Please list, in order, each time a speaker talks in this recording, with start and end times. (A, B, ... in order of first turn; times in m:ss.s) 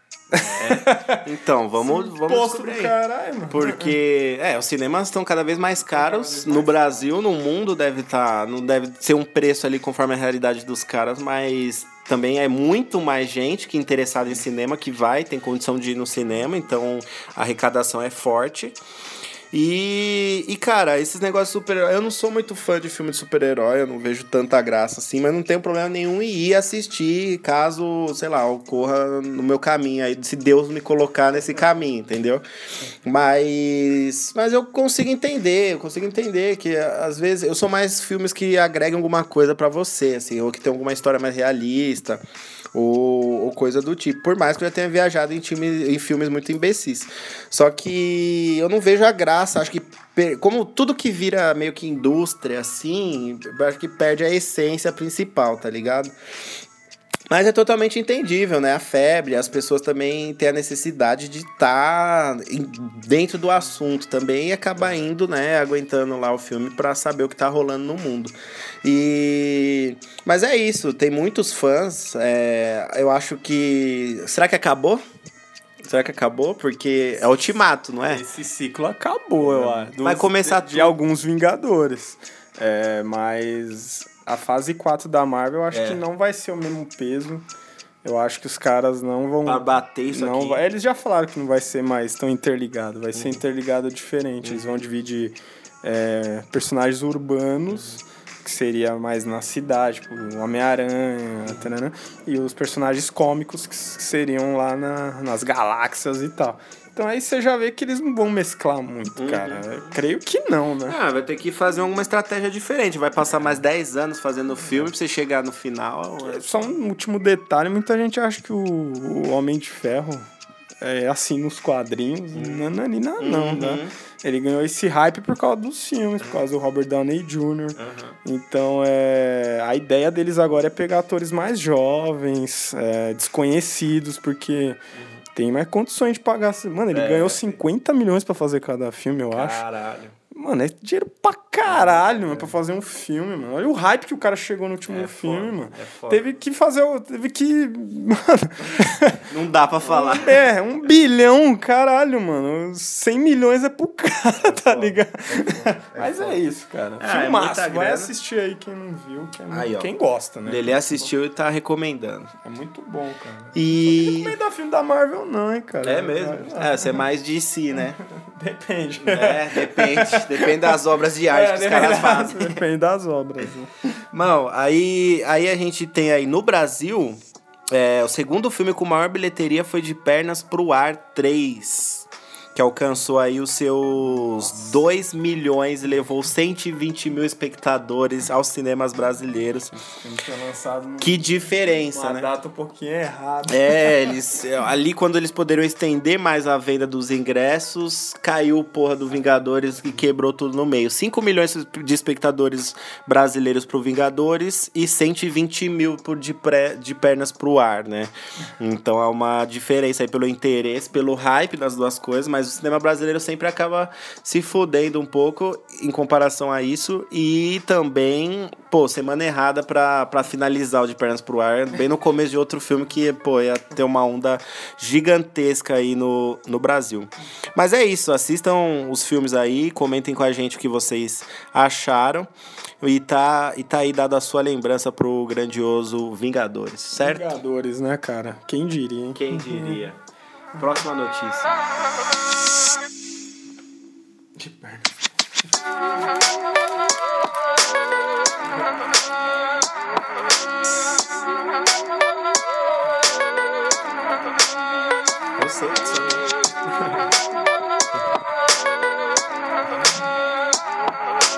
0:00.3-0:01.2 A
0:00.3-0:02.9 B
0:01.8-0:03.9 A
0:03.5-0:18.8 B
0:05.9-0:07.1 A
0:19.5-0:32.4 B
0:33.0-0:42.2 B
0:42.7-0:56.2 B
0:57.3-1:15.0 B
1:15.8-1:18.2 B
1:18.1-1:27.4 A
1:19.4-1:21.0 B
1:25.7-1:26.0 B
1:28.0-1:51.0 A
1:29.4-1:30.6 B
1:33.1-1:33.4 B
1:37.7-1:38.0 B
1:49.2-1:49.6 B
1:50.9-1:56.7 B
1:56.2-2:00.3 A
2:00.8-2:14.8 A
2:02.3-2:02.7 B
2:03.2-2:03.9 B
2:07.8-2:08.2 B
2:14.9-2:15.2 B
2:15.3-2:19.6 A
2:16.9-2:17.6 B
2:19.3-2:20.1 B
2:20.3-2:29.3 A
2:21.6-2:22.5 B
2:24.9-2:26.2 B
2:29.3-2:30.4 B
2:29.8-2:41.1 A
2:34.4-2:36.4 B
2:37.0-2:38.1 B
2:39.5-2:39.9 B
2:40.4-2:42.3 B
2:42.4-2:47.0 A
2:43.5-2:44.3 B
2:45.8-2:48.0 B
2:48.1-2:50.7 A
2:49.0-2:52.6 B
2:51.3-2:53.7 A
2:54.1-2:57.2 B
2:57.7-3:09.8 B
3:09.8-3:11.3 A
3:11.0-3:12.3 B
3:11.9-3:14.1 A
3:13.5-3:52.3 B
3:52.8-3:57.3 B
3:57.0-3:59.8 A
3:59.1-4:00.0 B
4:00.6-4:01.5 B
4:04.4-4:04.9 A
4:15.4-4:17.0 B